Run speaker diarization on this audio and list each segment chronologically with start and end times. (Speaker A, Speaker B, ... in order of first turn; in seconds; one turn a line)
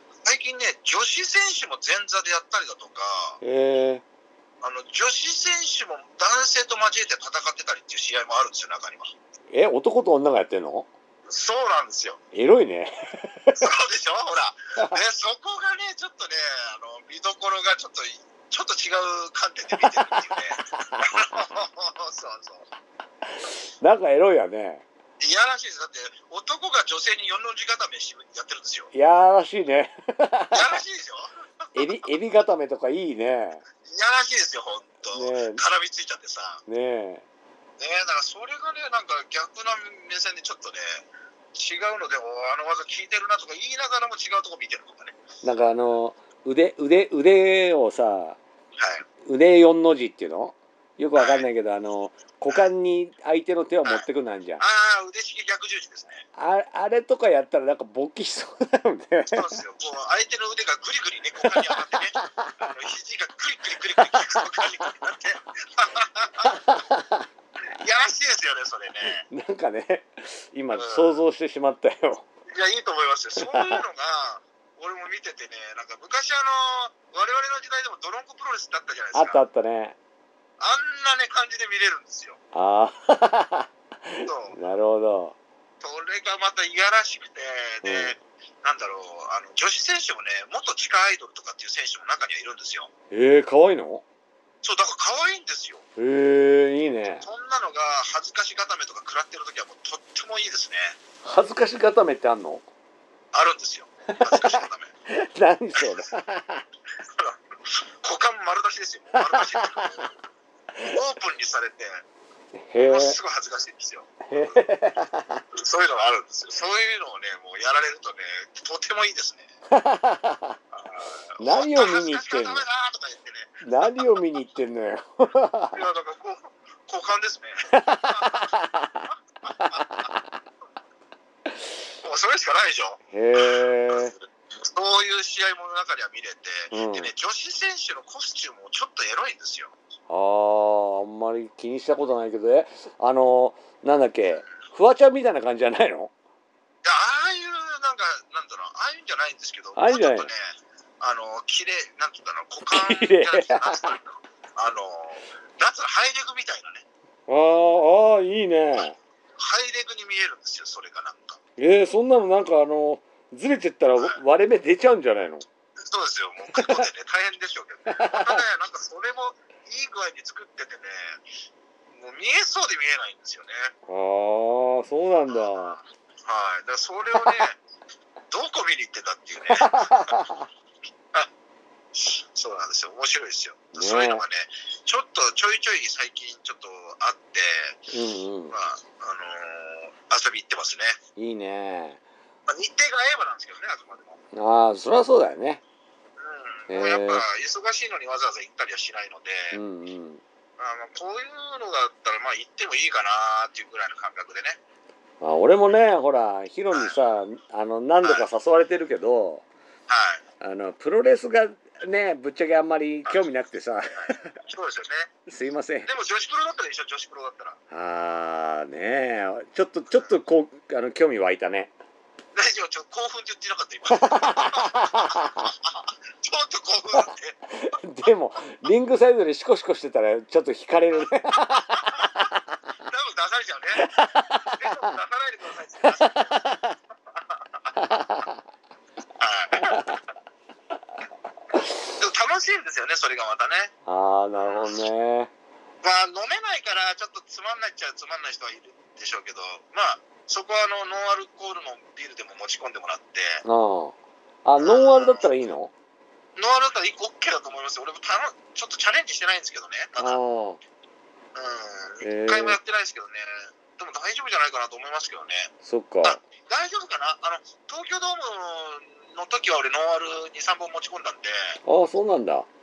Speaker A: 0.2-3.4
Speaker B: 3.4-4.0
Speaker A: 4.6-9.1
Speaker B: 9.5-10.9
Speaker A: 11.3-12.2
Speaker B: 12.3-13.6
Speaker A: 13.6-22.7
Speaker B: 19.8-20.2
Speaker B: 20.7-21.0
Speaker B: 23.3-24.8
Speaker A: 25.2-28.9
Speaker B: 28.9-30.8
Speaker A: 30.5-31.9
Speaker B: 31.7-33.6
Speaker A: 33.8-36.6
Speaker B: 35.1-35.6
Speaker B: 36.7-37.2
Speaker A: 37.8-45.2
Speaker B: 45.4-48.4
Speaker A: 48.8-49.0
Speaker B: 49.2-54.6
Speaker A: 51.1-51.5
Speaker A: 54.6-56.2
Speaker B: 56.4-59.5
Speaker A: 59.3-66.6
Speaker B: 61.4-62.5
Speaker B: 64.0-64.7
Speaker B: 66.4-67.3
Speaker A: 67.8-69.2
Speaker B: 69.2-72.2
Speaker A: 70.7-71.2
Speaker A: 72.5-79.4
Speaker B: 73.3-73.8
Speaker B: 79.1-80.0
Speaker A: 80.6-82.4
Speaker B: 82.5-85.3
Speaker A: 84.2-84.5
Speaker A: 85.8-92.9
Speaker B: 87.8-88.1
Speaker B: 93.1-94.0
Speaker A: 94.6-95.8
Speaker B: 96.0-97.2
Speaker A: 97.2-101.0
Speaker B: 101.2-102.6
Speaker A: 103.3-104.9
Speaker B: 104.1-106.6
Speaker A: 108.0-110.1
Speaker B: 109.1-110.0
Speaker A: 110.8-112.0
Speaker B: 112.5-113.2
Speaker A: 112.8-114.6
Speaker B: 114.3-115.4
Speaker A: 115.6-119.5
Speaker B: 119.7-120.6
Speaker A: 120.7-124.1
Speaker B: 121.4-122.6
Speaker B: 123.6-125.8
Speaker A: 125.7-128.5
Speaker B: 127.7-129.0
Speaker B: 129.6-130.3
Speaker A: 132.0-139.7
Speaker B: 133.1-134.1
Speaker B: 136.7-137.1
Speaker B: 140.1-146.1
Speaker A: 146.8-150.4
Speaker B: 149.8-150.3
Speaker A: 151.0-156.8
Speaker B: 152.7-153.9
Speaker B: 157.3-158.9
Speaker A: 159.4-161.4
Speaker B: 161.6-165.4
Speaker A: 165.8-171.2
Speaker B: 166.5-166.9
Speaker B: 167.9-168.4
Speaker A: 171.9-173.7
Speaker B: 173.9-175.8
Speaker A: 175.3-177.6
Speaker B: 177.1-177.3
Speaker A: 178.3-180.1
Speaker B: 179.5-180.5
Speaker A: 181.9-187.8
Speaker B: 183.7-184.2
Speaker B: 187.9-188.5
Speaker A: 188.5-191.0
Speaker B: 191.2-192.0
Speaker A: 192.5-194.2
Speaker B: 194.3-195.6
Speaker A: 196.2-199.6
Speaker B: 196.7-197.2
Speaker B: 199.5-200.2
Speaker A: 200.6-204.6
Speaker B: 205.2-209.4
Speaker A: 209.9-210.2
Speaker B: 210.4-214.3
Speaker A: 214.0-215.1
Speaker B: 215.3-215.9
Speaker A: 215.9-217.6
Speaker B: 217.7-221.7
Speaker A: 222.3-227.4
Speaker B: 223.9-225.3
Speaker B: 227.5-232.4
Speaker A: 232.8-236.6
Speaker B: 233.7-234.4
Speaker B: 235.8-236.7
Speaker A: 237.1-237.7
Speaker B: 237.7-238.4
Speaker A: 239.2-239.8
Speaker B: 239.7-240.0
Speaker A: 241.9-243.7
Speaker B: 243.8-245.3
Speaker A: 244.4-244.7
Speaker A: 245.8-253.4
Speaker B: 253.4-255.7
Speaker A: 254.6-255.2
Speaker A: 256.4-260.2
Speaker B: 260.0-260.6
Speaker A: 261.3-265.5
Speaker B: 262.0-262.6
Speaker B: 265.6-266.2
Speaker A: 266.0-271.5
Speaker B: 271.6-272.5